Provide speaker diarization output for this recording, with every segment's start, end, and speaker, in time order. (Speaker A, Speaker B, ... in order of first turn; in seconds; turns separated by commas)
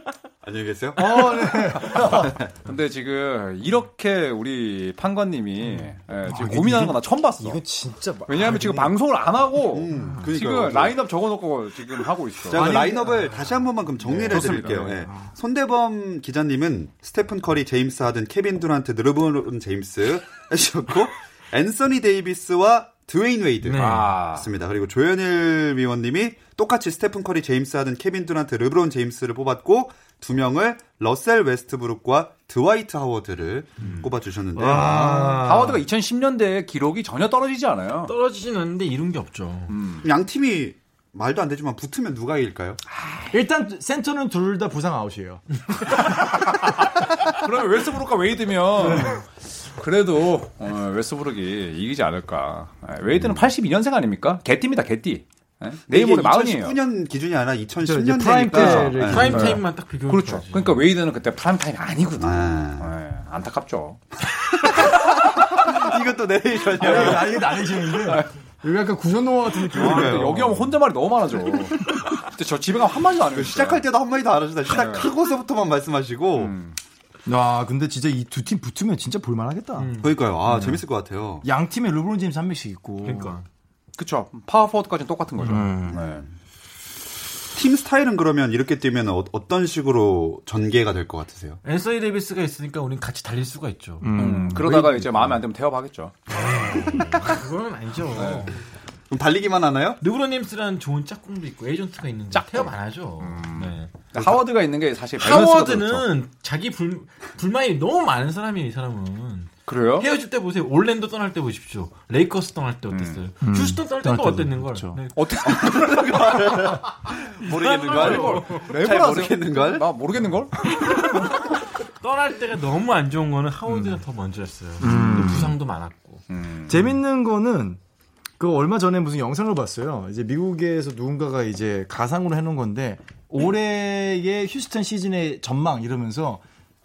Speaker A: 0.4-2.5, Speaker B: 0.9-2.4, Speaker C: 1.9-7.6, Speaker B: 6.2-8.9, Speaker C: 8.2-12.9, Speaker A: 9.7-11.0, Speaker B: 9.9-10.3, Speaker A: 12.4-35.4, Speaker B: 12.5-13.5, Speaker C: 14.0-14.9, Speaker B: 14.1-15.3, Speaker D: 23.6-24.1, Speaker C: 23.8-24.5, Speaker C: 33.8-34.1, Speaker B: 34.5-35.9, Speaker C: 35.1-38.1, Speaker D: 38.1-39.8, Speaker C: 39.7-40.1, Speaker A: 40.0-42.8, Speaker C: 43.0-43.3, Speaker B: 43.3-46.2, Speaker C: 46.0-56.8, Speaker B: 48.8-49.2, Speaker A: 55.9-59.5, Speaker B: 57.8-59.6, Speaker C: 58.5-64.0, Speaker D: 58.9-60.8, Speaker A: 62.2-62.9, Speaker A: 64.3-67.4, Speaker B: 66.7-70.7, Speaker C: 67.9-68.3, Speaker C: 69.7-73.8, Speaker A: 69.7-70.5, Speaker A: 73.3-76.5, Speaker C: 74.7-75.1, Speaker C: 76.3-76.8, Speaker B: 77.2-80.0, Speaker D: 79.8-80.7, Speaker A: 80.0-81.5, Speaker B: 80.5-80.8, Speaker B: 81.4-83.3, Speaker D: 83.0-83.5, Speaker C: 84.0-86.2, Speaker B: 85.4-86.0, Speaker A: 85.9-86.2, Speaker A: 87.5-91.6, Speaker D: 91.6-94.1, Speaker B: 94.0-95.4, Speaker C: 94.1-97.2, Speaker D: 96.3-98.6, Speaker C: 98.1-98.5, Speaker A: 99.1-100.0, Speaker D: 100.0-103.9, Speaker C: 102.3-106.1, Speaker A: 104.1-104.4, Speaker D: 105.2-115.2, Speaker C: 109.7-110.1, Speaker C: 112.9-113.2, Speaker B: 113.4-115.0, Speaker C: 115.1-116.8, Speaker A: 115.4-119.8, Speaker D: 117.4-118.7, Speaker C: 117.6-121.1, Speaker D: 120.7-126.2, Speaker B: 123.7-124.0, Speaker B: 124.8-125.6, Speaker C: 124.8-125.4, Speaker C: 126.3-126.8, Speaker B: 126.7-127.8, Speaker B: 128.4-136.4